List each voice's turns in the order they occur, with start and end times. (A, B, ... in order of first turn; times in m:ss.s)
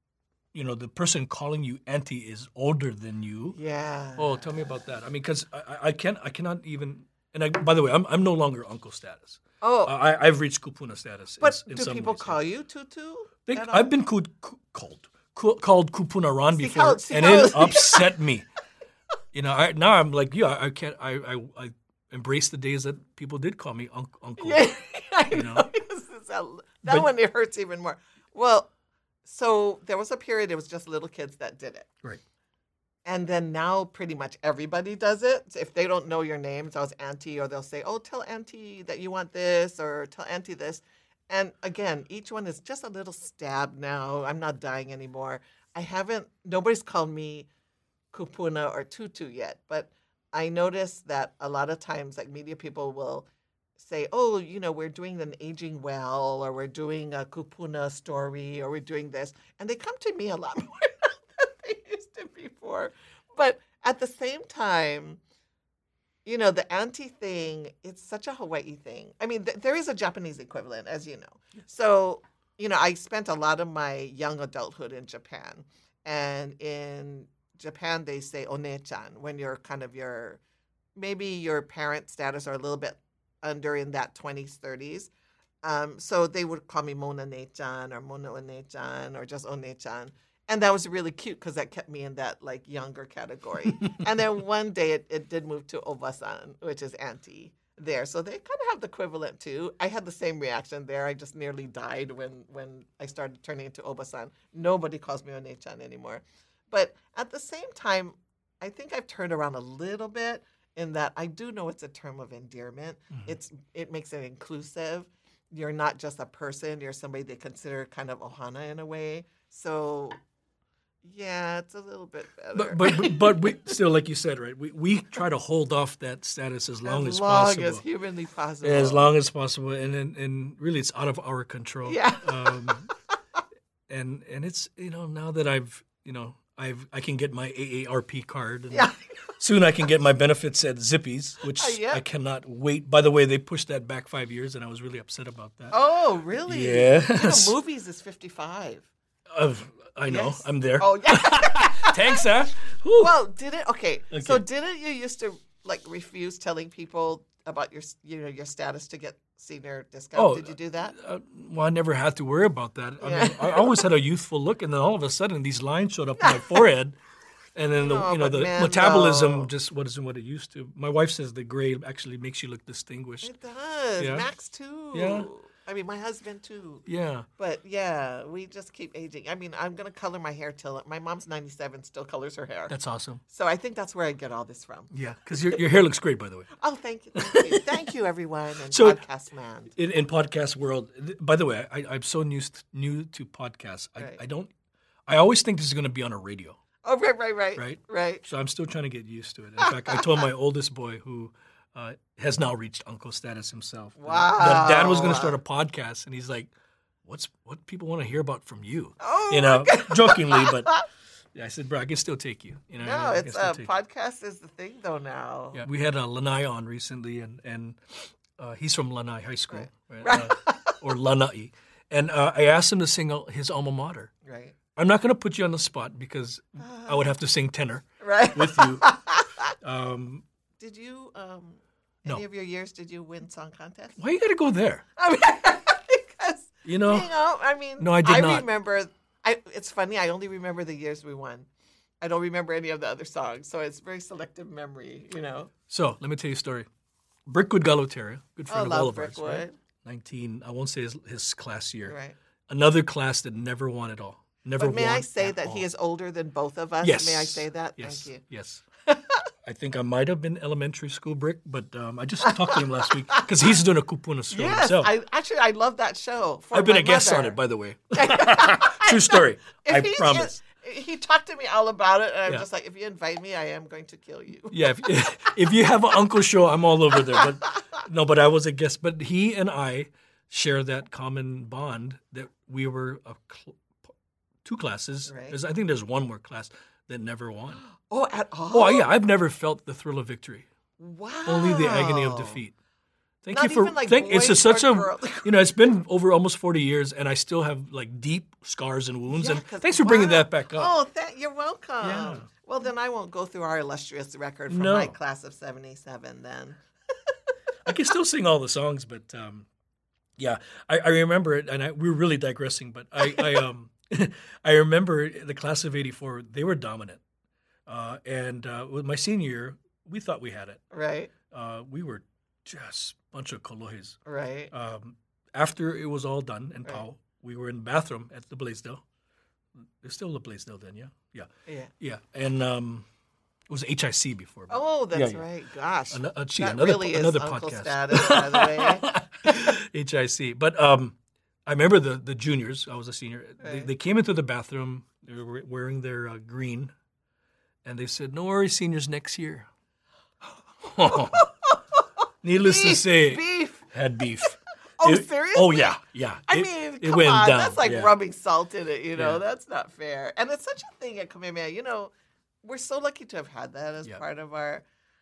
0:00.5-0:03.5 A
0:03.5-0:04.4 B
0:04.2-0:12.3 A
0:09.6-0:10.0 B
0:11.4-0:13.9 B
0:13.5-0:18.4 A
0:16.5-0:18.1 B
0:19.3-0:24.7 A
0:24.4-0:28.7 B
0:25.3-0:25.7 A
0:29.2-0:31.9 B
0:33.0-0:47.5 B
0:48.1-1:05.2 B
1:06.2-1:20.4 B
1:21.0-1:25.1 B
1:25.6-2:00.2 B
2:01.0-2:03.4 B
2:02.5-2:07.8 A
2:06.8-2:09.1 B
2:08.6-2:12.8 A
2:11.8-2:12.8 B
2:13.9-2:25.8 A
2:18.7-2:19.0 B
2:21.5-2:22.0 B
2:25.7-2:28.9 B
2:26.5-2:27.6 A
2:29.3-2:33.2 A
2:30.0-2:32.2 B
2:33.0-2:41.0 B
2:34.1-2:34.4 A
2:40.2-2:47.0 A
2:43.0-2:43.8 B
2:46.2-2:46.6 B
2:47.6-2:53.3 A
2:47.8-2:49.5 B
2:53.2-2:56.8 B
2:54.0-2:54.3 A
2:54.9-2:55.3 A
2:56.8-2:57.3 A
2:57.4-3:02.8 B
3:02.7-3:03.2 A
3:03.3-3:05.6 B
3:04.9-3:06.5 A
3:06.6-3:09.7 B
3:07.1-3:07.7 A
3:08.7-3:09.0 A
3:09.8-3:14.5 A
3:15.1-3:16.6 A
3:16.8-3:18.2 B
3:17.6-3:26.5 A
3:19.7-3:20.0 B
3:24.0-3:25.4 B
3:27.0-3:30.7 A
3:29.0-3:30.8 B
3:31.3-3:33.7 A
3:32.8-3:35.6 B
3:35.5-3:37.8 A
3:38.4-3:44.1 A
3:39.5-3:40.8 B
3:44.2-3:44.6 B
3:44.8-3:48.8 A
3:46.6-3:47.1 B
3:48.0-3:49.5 B
3:49.6-3:50.2 A
3:50.6-3:54.0 B
3:54.0-3:54.8 A
3:55.0-4:01.5 B
3:56.6-3:57.1 A
3:57.8-3:58.4 A
4:02.0-4:05.5 B
4:05.7-4:06.7 A
4:07.3-4:11.9 A
4:08.5-4:09.6 B
4:11.8-4:12.2 B
4:12.5-4:15.6 A
4:14.5-4:18.2 B
4:16.8-4:18.6 A
4:18.8-4:19.2 B
4:19.4-4:24.9 A
4:22.2-4:23.4 B
4:24.3-4:27.4 B
4:26.5-4:30.3 A
4:27.9-4:35.5 B
4:34.5-4:43.6 A
4:44.4-4:47.6 A
4:45.0-4:45.4 B
4:47.7-4:48.9 B
4:48.5-4:50.5 A
4:50.8-4:52.4 B
4:51.2-4:52.5 A
4:53.2-5:00.7 A
4:53.3-4:55.5 B
4:59.1-5:06.6 B
5:01.8-5:02.3 A
5:04.5-5:04.9 A
5:07.6-5:09.5 A
5:10.2-5:17.0 A
5:13.0-5:13.3 B
5:17.7-5:20.6 A
5:20.7-5:21.1 B
5:21.3-5:24.0 A
5:24.0-5:24.5 B
5:24.5-5:28.8 A
5:29.8-5:32.8 A
5:31.4-5:31.7 B
5:33.5-5:35.2 A
5:34.5-5:39.5 B
5:35.9-5:46.7 A
5:43.4-5:43.7 B
5:47.6-5:49.5 A
5:50.6-5:51.2 A
5:50.9-5:51.6 B
5:52.2-5:57.9 A
5:52.4-5:53.6 B
5:54.2-6:01.9 B
5:58.9-5:59.2 A
6:02.4-6:04.6 B